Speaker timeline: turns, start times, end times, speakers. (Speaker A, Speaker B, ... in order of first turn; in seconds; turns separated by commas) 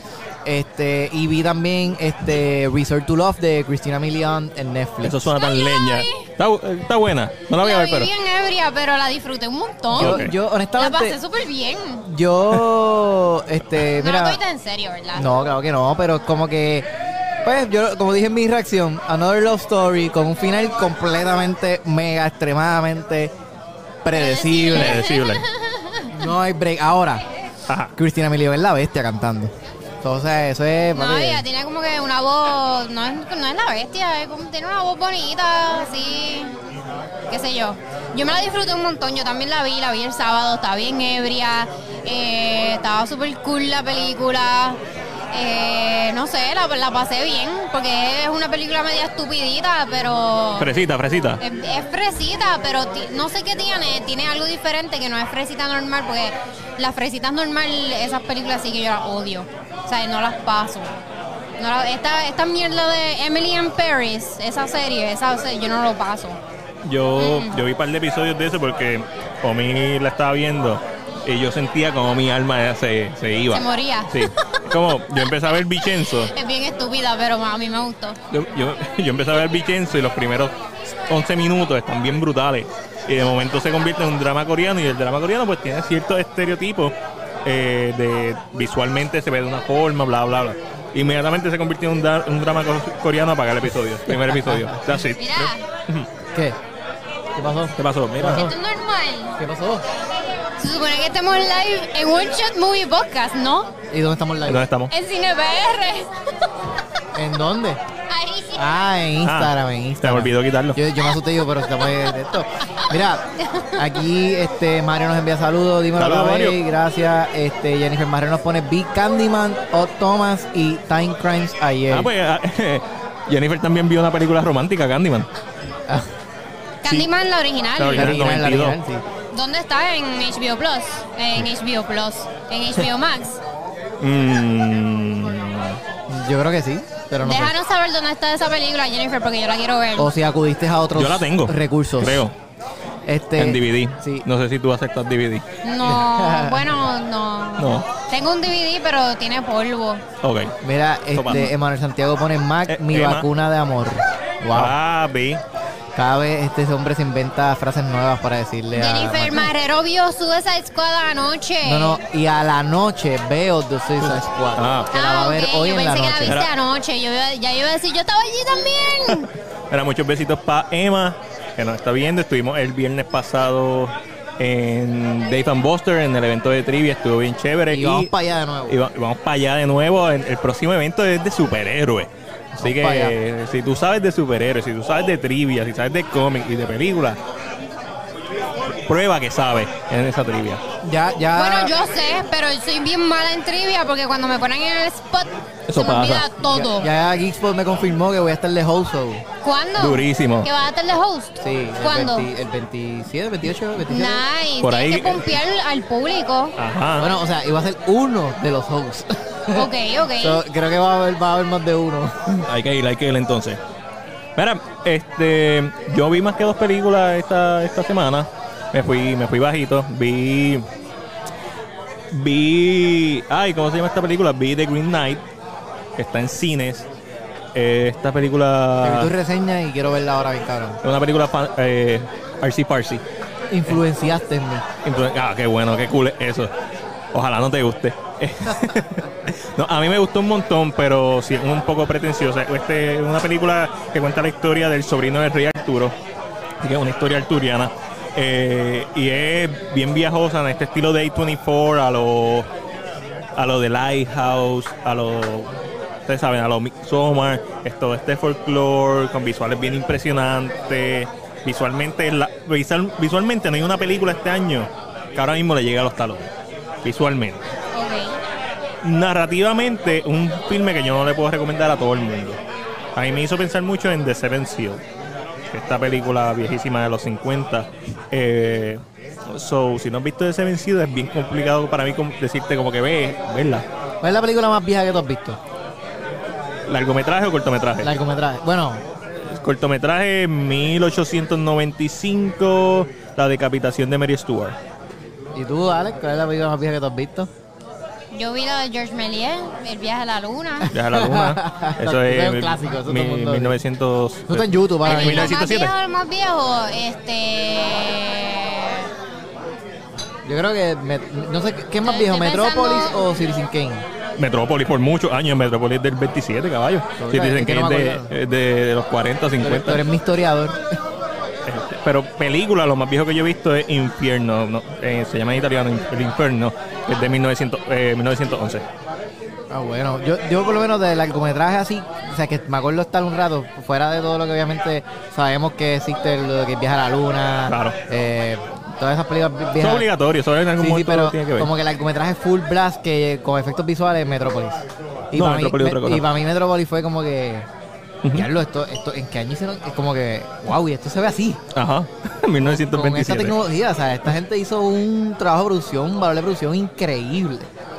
Speaker A: 0.4-5.3, Speaker B: 5.0-8.1, Speaker C: 5.3-6.3, Speaker C: 7.6-12.1, Speaker A: 9.9-11.2, Speaker B: 10.0-10.3, Speaker A: 12.0-14.4, Speaker C: 13.8-15.3, Speaker A: 15.1-16.9, Speaker A: 17.4-23.3, Speaker A: 24.0-25.0, Speaker C: 24.1-26.2, Speaker B: 24.7-25.4, Speaker A: 26.1-27.2, Speaker B: 27.7-27.9, Speaker A: 27.9-31.4, Speaker C: 30.9-36.6, Speaker C: 37.3-44.8, Speaker C: 45.3-50.7, Speaker B: 50.6-51.4, Speaker C: 51.4-60.9, Speaker C: 61.6-66.4, Speaker B: 66.8-76.3, Speaker C: 67.2-67.6, Speaker C: 73.5-78.2, Speaker B: 78.3-80.5, Speaker B: 81.1-96.1, Speaker A: 94.3-94.8, Speaker C: 95.2-95.6, Speaker A: 97.3-98.5, Speaker B: 97.8-98.5, Speaker C: 98.2-99.4, Speaker A: 99.4-99.8, Speaker C: 100.6-103.7, Speaker A: 103.9-104.7, Speaker B: 104.5-104.9, Speaker C: 104.9-107.0, Speaker A: 107.1-107.8, Speaker C: 108.1-108.7, Speaker A: 108.5-122.1, Speaker B: 109.2-110.8, Speaker C: 111.8-113.8, Speaker B: 116.0-116.6, Speaker B: 121.9-125.3, Speaker C: 126.8-128.2, Speaker B: 127.8-128.8, Speaker A: 127.9-129.0, Speaker C: 129.3-133.4, Speaker B: 134.0-135.8, Speaker A: 136.1-137.5, Speaker C: 137.2-140.1, Speaker A: 139.9-142.2, Speaker B: 140.9-142.3, Speaker A: 143.0-144.2, Speaker B: 143.4-145.4, Speaker C: 145.6-150.0, Speaker A: 145.8-146.8, Speaker B: 147.6-147.9, Speaker B: 150.2-150.5, Speaker A: 150.6-154.8, Speaker B: 151.1-151.5, Speaker B: 152.7-153.3, Speaker B: 154.5-155.4, Speaker A: 155.9-159.5, Speaker C: 158.7-162.0, Speaker A: 161.6-166.4, Speaker B: 164.0-164.9, Speaker C: 164.9-169.3, Speaker B: 169.7-178.1, Speaker A: 177.7-178.8, Speaker B: 178.7-182.1, Speaker A: 182.5-183.2, Speaker B: 182.6-187.2, Speaker B: 188.8-190.6, Speaker A: 190.8-191.8, Speaker C: 191.3-196.9, Speaker B: 195.7-196.3, Speaker A: 196.4-199.2, Speaker C: 199.4-202.3, Speaker B: 199.8-200.5, Speaker A: 201.4-204.2, Speaker C: 203.8-206.6, Speaker B: 204.6-205.3, Speaker B: 206.6-207.1, Speaker A: 207.0-212.5, Speaker C: 209.5-210.4, Speaker B: 212.4-213.6, Speaker B: 214.3-220.7, Speaker B: 222.1-225.2, Speaker B: 226.0-226.8, Speaker B: 227.5-229.1, Speaker A: 228.8-230.8, Speaker B: 230.8-233.0, Speaker A: 233.5-234.7, Speaker B: 234.8-236.5, Speaker B: 237.1-245.9, Speaker B: 246.6-252.5, Speaker B: 253.3-255.5, Speaker B: 256.1-266.3, Speaker B: 266.8-267.4, Speaker C: 267.7-268.2, Speaker B: 268.8-272.4, Speaker B: 272.9-274.8, Speaker B: 275.5-283.6, Speaker A: 284.0-285.4, Speaker B: 286.7-287.9, Speaker A: 287.8-288.8, Speaker B: 289.2-294.6, Speaker A: 295.3-297.3, Speaker C: 298.1-300.7, Speaker B: 300.7-305.7, Speaker A: 300.7-303.6, Speaker A: 304.3-305.3, Speaker C: 304.8-308.9, Speaker A: 310.2-313.8, Speaker C: 311.8-313.0, Speaker B: 314.2-319.8, Speaker A: 317.0-318.1, Speaker A: 319.4-320.8, Speaker B: 321.4-328.6, Speaker A: 329.5-339.9, Speaker B: 337.5-337.8, Speaker B: 339.6-341.5, Speaker A: 340.6-347.5, Speaker B: 345.1-346.1, Speaker A: 348.1-351.4, Speaker B: 351.5-353.4, Speaker A: 352.7-357.5